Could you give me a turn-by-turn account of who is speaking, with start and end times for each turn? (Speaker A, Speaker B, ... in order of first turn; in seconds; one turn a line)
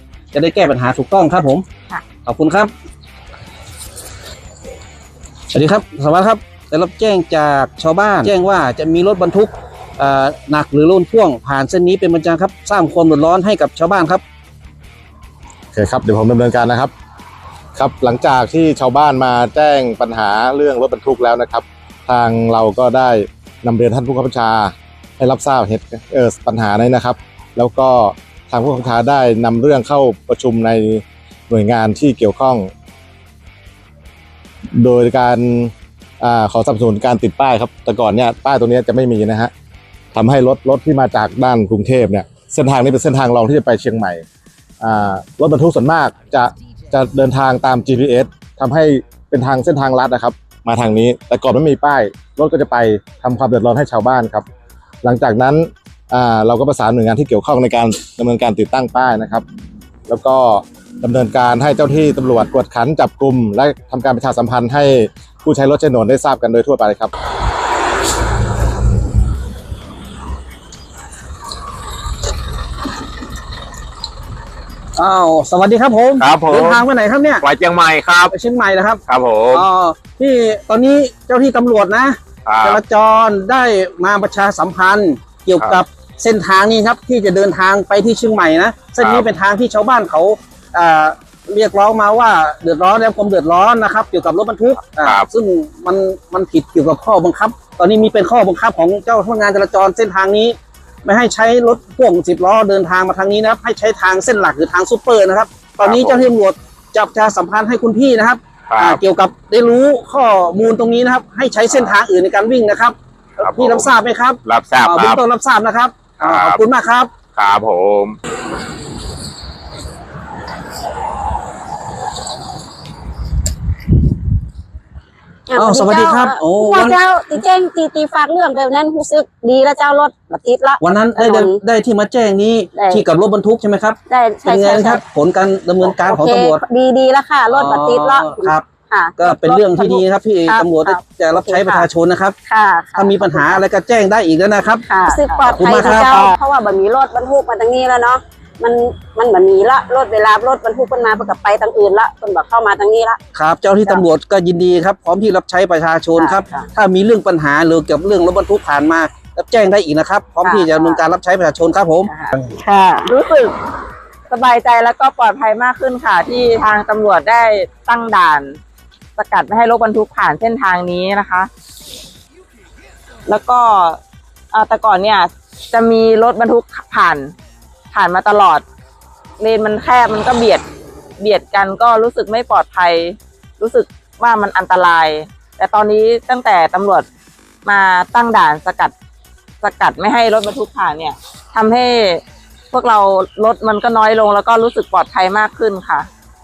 Speaker A: 0.3-1.6
Speaker A: 2.3-2.7
Speaker A: 5.5-14.2
Speaker B: 15.7-16.9
Speaker B: 17.8-32.7
Speaker B: 34.8-39.5
Speaker B: 40.1-44.2
Speaker B: 44.8-54.5
Speaker B: 55.0-59.4
Speaker B: 60.1-67.1
Speaker A: 75.0-77.4
Speaker C: 76.2-76.8
Speaker C: 77.4-78.3
Speaker A: 78.3-79.0
Speaker C: 79.1-79.6
Speaker A: 79.5-117.1
Speaker C: 82.5-82.8
Speaker C: 89.0-89.3
Speaker C: 95.0-95.3
Speaker C: 105.8-106.2
Speaker C: 108.7-109.0
Speaker C: 113.4-113.9
Speaker C: 114.5-115.2
Speaker C: 116.2-116.6
Speaker C: 117.3-118.2
Speaker D: 125.5-131.6
Speaker A: 125.5-127.0
Speaker A: 130.8-136.6
Speaker D: 132.8-133.0
Speaker D: 134.1-135.0
Speaker D: 136.1-141.8
Speaker A: 137.5-138.7
Speaker A: 139.2-142.4
Speaker D: 142.5-143.6
Speaker A: 142.9-144.9
Speaker D: 144.9-153.2
Speaker E: 145.1-146.3
Speaker A: 145.5-146.3
Speaker A: 153.3-162.1
Speaker D: 156.2-156.6
Speaker D: 160.4-161.0
Speaker D: 162.1-163.1
Speaker E: 163.1-163.5
Speaker E: 164.3-168.6
Speaker E: 169.2-171.5
Speaker E: 173.3-174.0
Speaker E: 174.5-177.3
Speaker E: 177.9-178.6
Speaker E: 179.4-180.6
Speaker E: 181.2-187.1
Speaker E: 187.6-188.9
Speaker E: 189.6-196.1